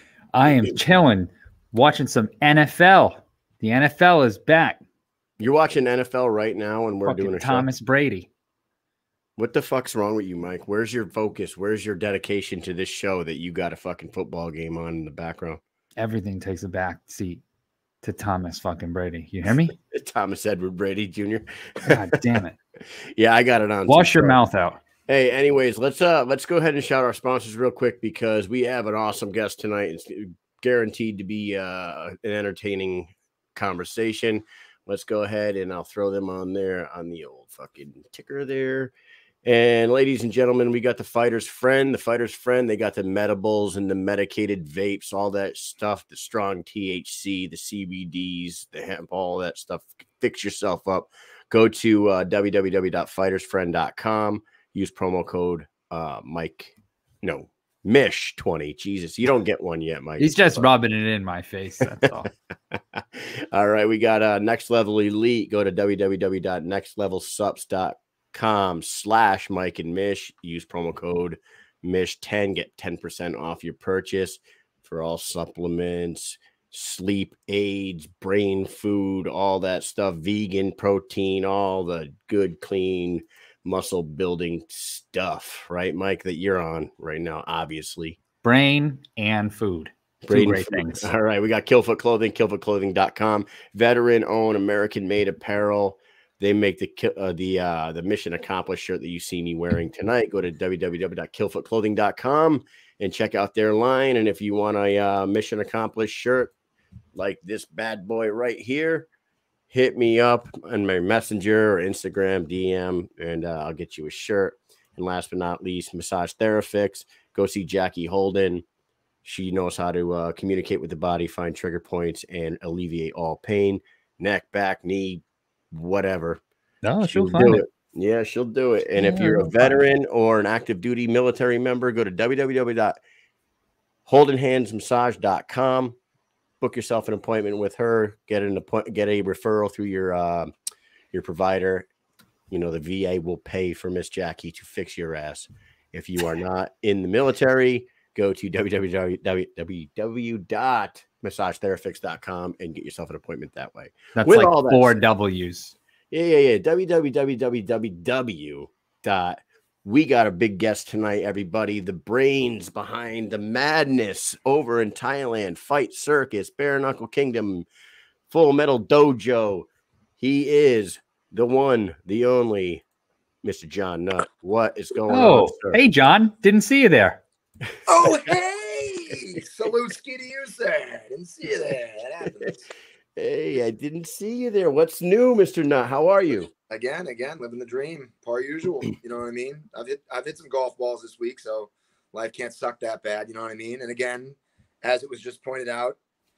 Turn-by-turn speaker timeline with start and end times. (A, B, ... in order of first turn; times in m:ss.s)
0:00.3-0:04.8 A
0:00.4-0:00.8 B
0:05.4-0:07.7 B
0:07.1-0:08.3 A
0:09.4-0:15.6 B
0:16.0-0:17.4 A
0:18.0-0:19.8 A
0:19.8-0:22.1 B
0:21.8-0:22.6 A
0:22.9-0:24.4 B
0:23.9-0:24.8 A
0:25.1-0:38.9 B
0:39.4-1:00.7 B
1:00.2-1:02.3 A
1:01.8-1:02.1 B
1:02.7-1:28.2 B
1:28.4-1:31.1 A
1:30.2-1:46.5 B
1:47.1-1:49.1 B
1:49.7-1:58.6 B
1:59.2-2:06.4 B
2:06.8-2:07.6 A
2:07.0-2:13.0 B
2:09.0-2:09.8 A
2:14.1-2:16.0 B
2:16.6-2:20.5 B
2:21.1-2:21.9 B
2:22.5-2:35.0 B
2:34.2-2:35.8 A
2:36.1-2:47.7 B
2:48.3-2:49.7 B
2:50.2-2:52.8 B
2:53.4-2:55.8 B
2:55.1-2:57.2 A
2:57.9-3:02.6 C
3:03.2-3:06.5 B
3:06.7-3:16.0 C